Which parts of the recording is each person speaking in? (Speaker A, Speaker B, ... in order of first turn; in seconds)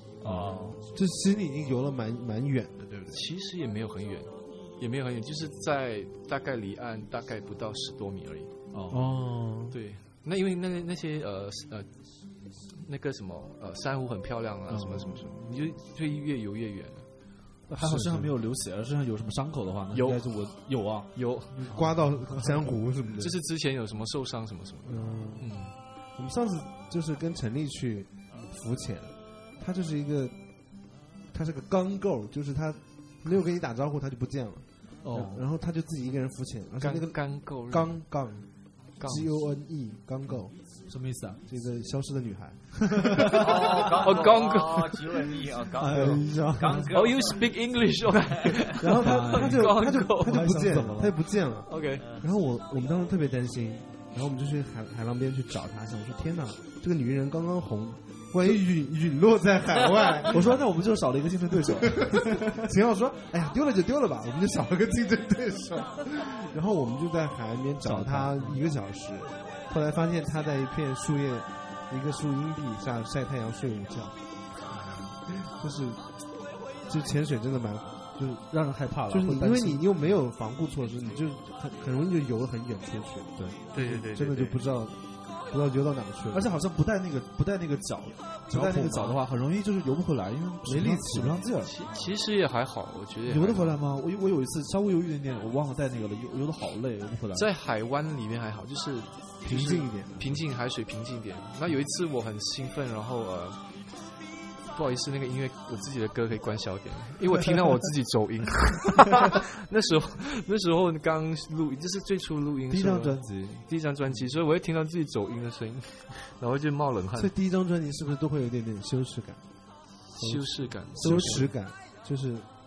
Speaker A: 0.2-0.8, 43.3-47.4, 52.0-52.3
Speaker B: 0.2-0.8, 8.7-9.1, 17.7-22.6, 35.0-35.4, 40.9-41.4, 45.8-46.9, 48.8-51.1, 60.3-62.7, 67.8-68.6, 78.5-79.8, 86.3-91.7, 93.3-97.5, 112.7-113.7, 120.9-121.5
Speaker C: 0.9-3.3, 8.9-9.8, 14.7-15.3, 17.7-18.3, 21.6-23.4, 24.8-30.4, 31.3-38.5, 39.0-40.5, 41.5-43.8, 45.9-46.7, 48.7-60.6, 61.9-74.2, 75.4-76.0, 76.8-78.5, 79.1-86.5, 88.5-89.2, 90.6-91.4, 99.4-100.4, 117.2-119.4, 120.2-122.5
Speaker D: 3.1-8.5, 9.7-11.9, 12.7-17.1, 19.9-21.9, 23.2-25.7, 36.8-38.0, 39.0-39.3, 43.6-45.0, 46.9-50.4, 51.7-52.0, 83.7-84.6, 91.6-93.8, 97.3-103.8, 104.7-117.3, 120.1-121.5